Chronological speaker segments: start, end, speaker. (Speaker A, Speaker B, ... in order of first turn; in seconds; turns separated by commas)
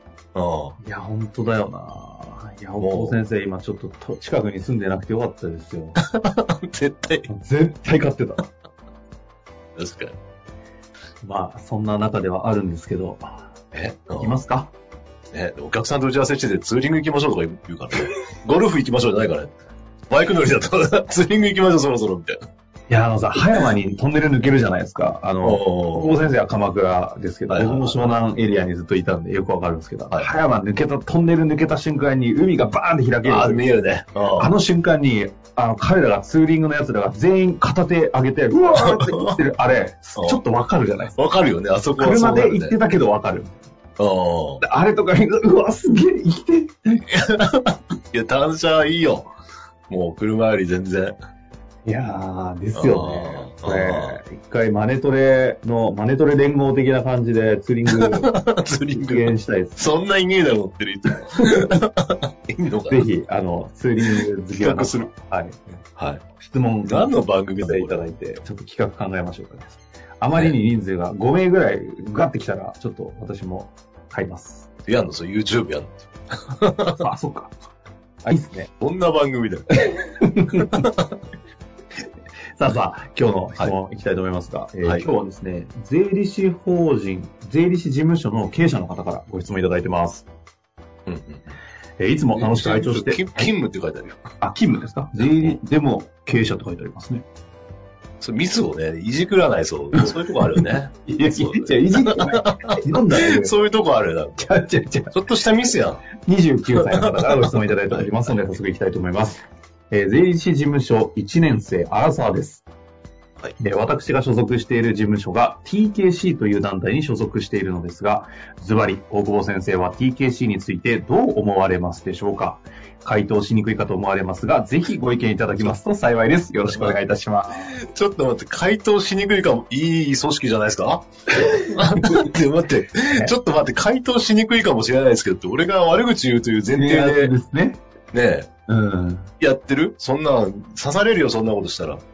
Speaker A: 0.3-0.8, Speaker B: 0.8-6.0, Speaker A: 2.8-3.2, Speaker A: 6.0-7.3, Speaker B: 7.3-8.5, Speaker A: 9.8-10.2, Speaker B: 11.2-13.5, Speaker A: 13.7-14.4, Speaker B: 14.2-14.7, Speaker A: 15.3-19.5, Speaker A: 20.1-22.4, Speaker B: 22.9-33.7, Speaker A: 25.4-26.2, Speaker A: 27.5-28.1, Speaker A: 33.2-34.5, Speaker B: 34.4-41.2, Speaker A: 38.7-39.4, Speaker A: 41.1-42.8, Speaker B: 42.0-43.7, Speaker A: 44.0-44.6, Speaker B: 44.6-47.0, Speaker A: 47.1-49.3, Speaker A: 49.9-51.2, Speaker B: 51.9-58.3, Speaker A: 52.7-54.2, Speaker A: 57.9-63.1, Speaker B: 58.9-59.9, Speaker B: 61.4-61.7, Speaker B: 62.9-65.6, Speaker A: 64.1-65.1, Speaker A: 66.0-66.2, Speaker B: 66.4-74.7, Speaker A: 66.9-68.0, Speaker A: 74.9-77.0, Speaker B: 77.0-77.6, Speaker B: 78.2-78.7, Speaker A: 78.8-79.9, Speaker B: 79.8-80.8, Speaker A: 80.5-81.1, Speaker B: 82.5-90.3, Speaker A: 91.1-91.6, Speaker B: 92.0-93.5, Speaker A: 92.3-94.2, Speaker B: 94.4-97.2, Speaker A: 98.2-104.5, Speaker B: 99.9-103.6, Speaker B: 104.4-105.2, Speaker A: 105.1-106.1, Speaker B: 106.2-112.7, Speaker A: 106.7-108.3, Speaker B: 113.6-127.7, Speaker A: 126.7-127.0, Speaker A: 127.5-137.3, Speaker B: 133.1-133.3, Speaker B: 136.7-137.8, Speaker A: 138.1-138.5, Speaker B: 138.7-139.3, Speaker A: 139.4-142.0